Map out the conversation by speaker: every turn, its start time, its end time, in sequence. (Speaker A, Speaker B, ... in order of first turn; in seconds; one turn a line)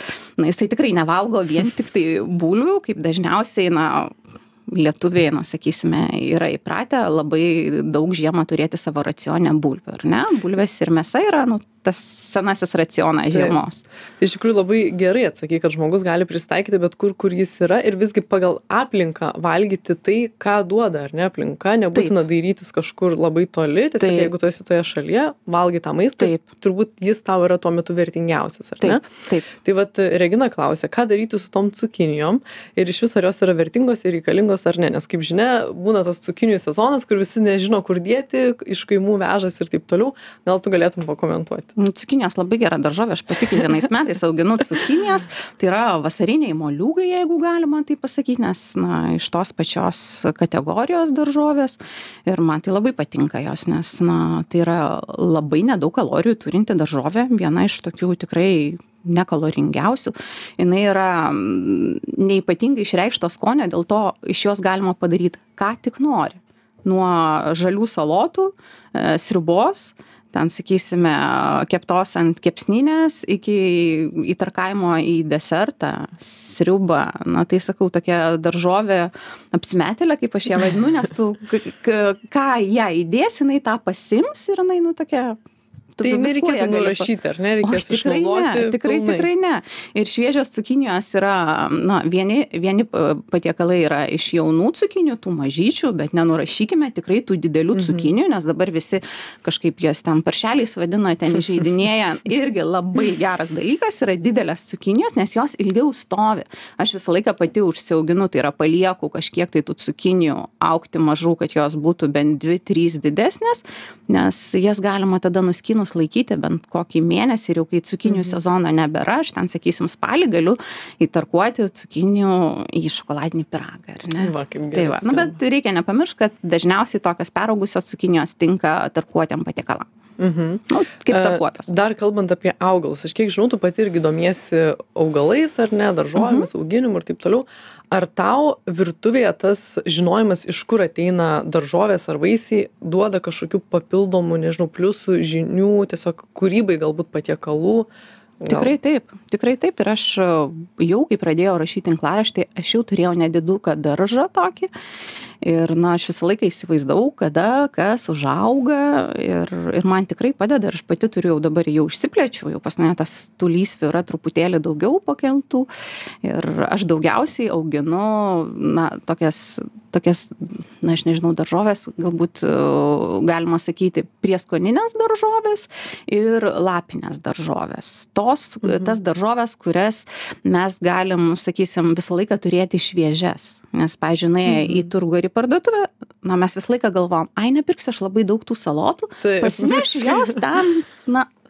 Speaker A: 0.4-4.1
Speaker A: 4.7-13.8
Speaker B: 13.3-13.6
Speaker B: 14.2-29.0
Speaker A: 24.0-24.3
Speaker A: 28.8-29.5
Speaker B: 29.6-41.7
Speaker A: 41.8-85.4
Speaker A: 86.0-87.1
Speaker B: 86.0-89.3
Speaker A: 87.6-129.8
Speaker B: 97.7-98.1
Speaker B: 118.1-118.4
Speaker B: 124.2-125.4
Speaker B: 130.2-147.9
Speaker A: 130.7-131.7
Speaker A: 136.2-136.5
Speaker B: 148.4-148.7
Speaker A: 148.5-154.7
Speaker A: 155.4-165.7
Speaker A: 166.2-191.3
Speaker B: 178.6-178.9
Speaker B: 184.5-184.9
Speaker B: 189.2-190.4